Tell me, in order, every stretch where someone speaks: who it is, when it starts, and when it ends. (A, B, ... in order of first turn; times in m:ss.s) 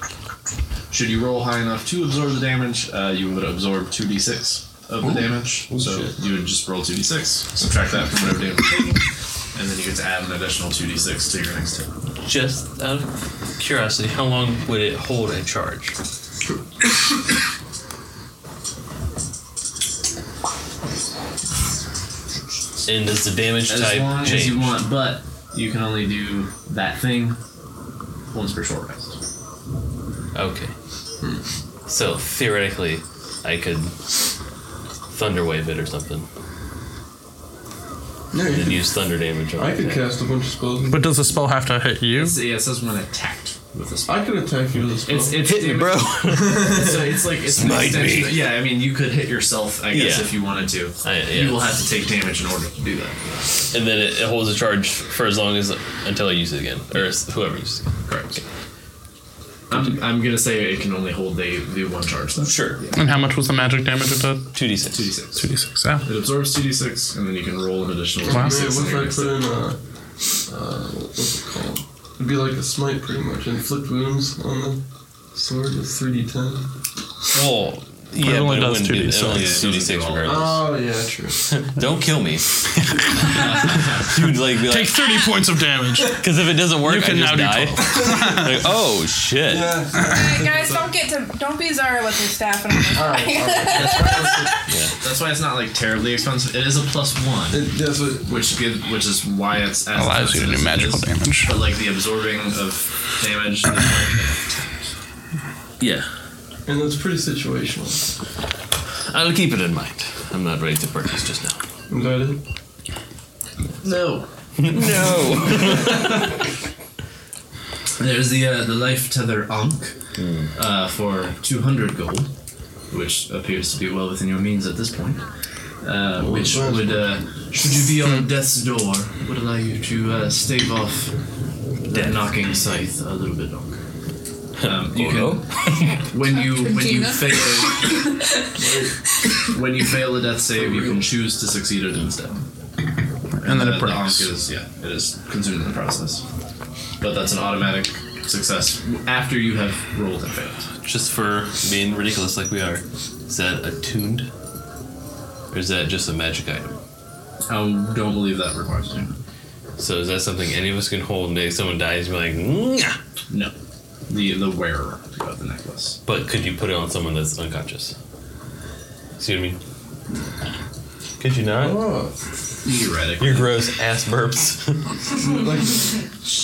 0:00.9-0:11.9 A
0:05.7-0:06.2 B
0:12.2-0:15.9 B
0:22.9-0:24.8 B
0:23.7-0:27.4 A
0:28.3-0:29.2 A
0:30.3-0:30.7 B
0:31.9-0:34.0 B
0:35.1-0:36.3 B
0:38.3-0:38.9 C
0:38.4-0:40.0 B
0:39.6-0:41.0 C
0:40.9-0:42.4 D
0:42.1-0:44.4 A
0:44.1-0:45.5 C
0:45.0-0:53.6 A
0:45.4-0:48.5 B
0:46.3-0:47.1 C
0:49.9-0:50.5 B
0:51.0-0:51.7 B
0:53.7-0:58.4 B
0:58.1-0:58.4 A
0:59.7-1:03.0 A
1:02.4-1:02.8 B
1:02.9-1:04.6 D
1:04.6-1:05.1 B
1:04.9-1:05.5 A
1:05.4-1:06.1 D
1:06.0-1:09.4 A
1:08.2-1:09.8 C
1:10.5-1:16.7 C
1:17.3-1:20.7 B
1:18.2-1:19.7 D
1:19.3-1:20.6 A
1:20.2-1:21.6 C
1:21.4-1:22.6 B
1:23.3-1:24.1 A
1:23.3-1:25.1 B
1:24.6-1:26.2 D
1:26.2-1:29.8 B
1:26.8-1:28.5 D
1:27.8-1:28.6 C
1:29.5-1:30.9 C
1:29.9-1:34.6 E
1:32.9-1:34.5 C
1:33.7-1:44.9 A
1:37.5-1:38.5 C
1:40.0-1:41.6 D
1:45.8-1:46.1 B
1:46.7-1:48.1 C
1:49.1-1:51.6 B
1:51.9-1:52.4 C
1:53.8-1:54.8 A
1:54.6-1:56.3 B
1:55.7-1:56.2 A
1:58.0-2:00.0 A
2:00.2-2:00.5 B
2:00.6-2:02.3 A
2:02.9-2:05.2 A
2:05.8-2:11.2 A
2:06.2-2:07.2 C
2:11.9-2:13.8 A
2:11.9-2:12.3 B
2:14.6-2:16.0 B
2:14.6-2:18.0 A
2:16.2-2:18.4 E
2:18.6-2:19.0 C
2:19.5-2:22.5 A
2:20.7-2:21.0 C
2:23.4-2:24.3 D
2:23.4-2:26.2 A
2:27.0-2:30.7 A
2:30.8-2:34.3 B
2:35.5-2:36.8 B
2:37.5-2:39.1 A
2:39.8-2:43.0 B
2:44.1-2:46.0 A
2:46.1-2:48.0 B
2:49.2-2:49.6 B
2:51.2-2:51.8 B
2:51.5-2:52.2 C
2:52.6-2:53.6 A
2:53.2-2:55.0 B
2:55.2-2:56.0 C